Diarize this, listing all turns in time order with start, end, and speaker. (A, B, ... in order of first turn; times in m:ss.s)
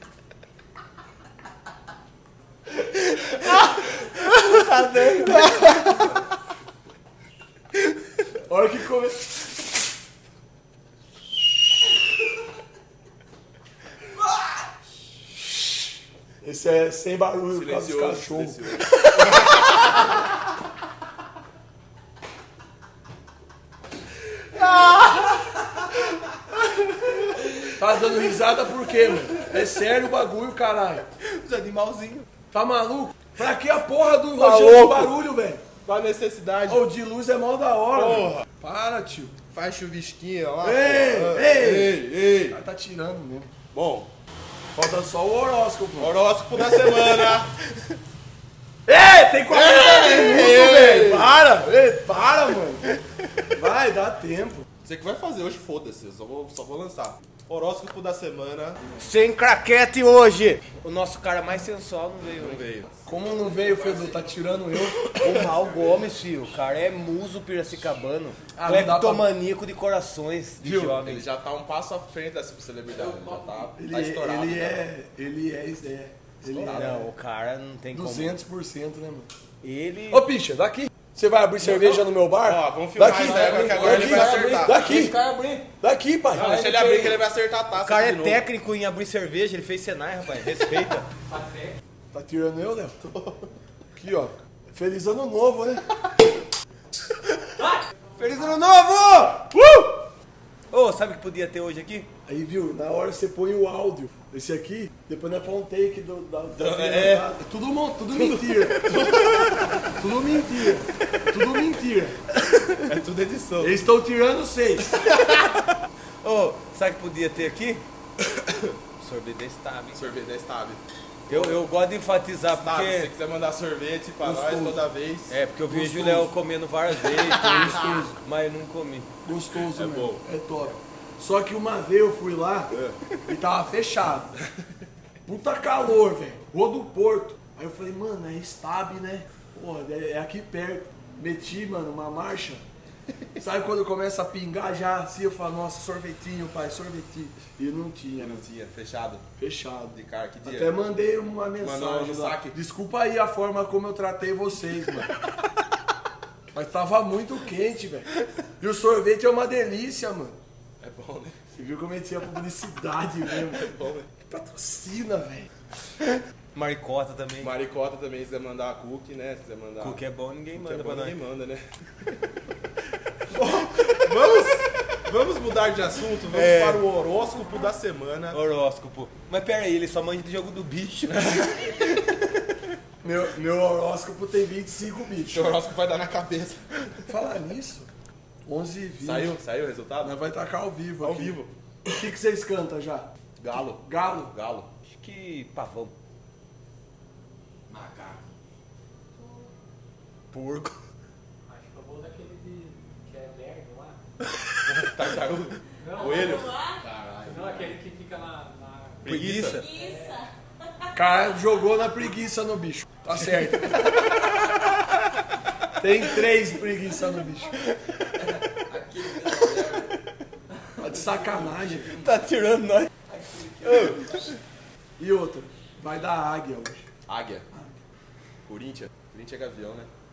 0:03.2-0:06.2 A
0:08.5-0:09.3 B
0:16.4-0:18.6 B
0:17.5-0:19.8 C
0:24.5-0:25.4 C
0:27.8-0:31.0 B
0:31.3-0:32.3 A
0:32.5-0:35.6 B
0:34.4-0:35.1 C
0:35.8-0:36.8 C
0:36.7-0:39.3 B
0:37.9-0:38.5 C
0:39.5-0:42.6 C
0:40.6-0:42.0 B
0:42.5-0:43.5 B
0:43.7-0:44.1 C
0:44.8-0:46.2 B
0:46.0-0:47.5 C
0:48.9-0:52.9 B
0:49.5-0:51.4 C
0:53.5-0:54.7 B
0:54.8-0:58.8 C
0:59.0-1:02.7 A
1:02.4-1:03.0 C
1:03.1-1:05.4 B
1:05.0-1:05.5 C
1:05.0-1:11.3 A
1:08.6-1:09.3 B
1:10.6-1:10.9 B
1:10.7-1:14.8 C
1:13.0-1:13.6 D
1:13.8-1:17.1 B
1:16.5-1:17.1 C
1:16.6-1:18.4 A
1:17.9-1:19.3 B
1:19.6-1:20.2 A
1:20.1-1:25.2 B
1:21.7-1:22.0 A
1:22.4-1:24.8 C
1:23.0-1:25.7 A
1:25.8-1:26.6 B
1:26.3-1:28.4 C
1:26.4-1:27.2 A
1:27.8-1:31.1 A
1:31.3-1:31.8 E
1:32.1-1:33.0 B
1:33.0-1:33.5 C
1:34.0-1:35.8 B
1:38.2-1:39.5 A
1:40.7-1:42.1 A
1:42.3-1:48.9 B
1:46.6-1:47.3 C
1:48.2-1:49.7 C
1:50.0-1:52.2 B
1:52.9-1:53.8 C
1:53.6-1:54.9 B
1:55.0-1:55.5 C
1:56.2-1:57.8 A
1:58.2-1:58.7 C
1:59.0-2:00.1 A
1:59.9-2:01.6 C
2:01.3-2:03.1 A
2:02.5-2:05.4 C
2:04.2-2:04.8 B
2:05.3-2:09.1 A
2:05.7-2:06.3 B
2:07.4-2:08.2 B
2:09.2-2:12.7 B
2:09.7-2:10.2 C
2:12.7-2:13.0 C
2:13.3-2:14.3 B
2:15.3-2:22.6 B
2:23.4-2:28.4 B
2:28.2-2:29.2 C
2:29.4-2:35.1 B
2:29.9-2:30.7 C
2:31.6-2:32.6 C
2:36.5-2:38.1 B
2:38.6-2:40.4 B
2:40.8-2:41.4 C
2:41.6-2:43.7 B
2:43.6-2:44.1 C
2:44.3-2:45.5 B
2:46.5-2:47.6 A
2:47.4-2:50.0 C
2:49.8-2:51.2 A
2:50.6-2:51.6 C
2:53.3-2:58.4 C
2:56.3-2:56.8 A
2:58.3-3:01.8 A
3:01.1-3:01.8 C
3:03.0-3:05.6 B
3:05.3-3:07.0 C
3:07.1-3:07.9 B
3:08.5-3:09.4 B
3:09.0-3:10.2 C
3:10.0-3:11.4 B
3:11.0-3:11.5 C
3:11.9-3:13.1 B
3:13.4-3:14.7 C
3:13.8-3:14.3 B
3:14.9-3:15.9 A
3:17.7-3:18.2 D
3:20.3-3:20.8 A
3:21.5-3:24.0 E
3:24.6-3:26.5 C
3:25.8-3:26.4 E
3:26.8-3:27.7 D
3:27.2-3:30.3 E
3:29.0-3:29.7 A
3:29.0-3:29.7 C
3:30.9-3:33.9 B
3:35.8-3:37.6 B
3:38.7-3:39.9 D
3:40.8-3:42.0 B
3:42.0-3:42.9 A
3:43.6-3:44.3 A
3:45.0-3:46.9 B
3:47.1-3:47.4 C
3:47.5-3:47.8 B
3:48.5-3:49.9 C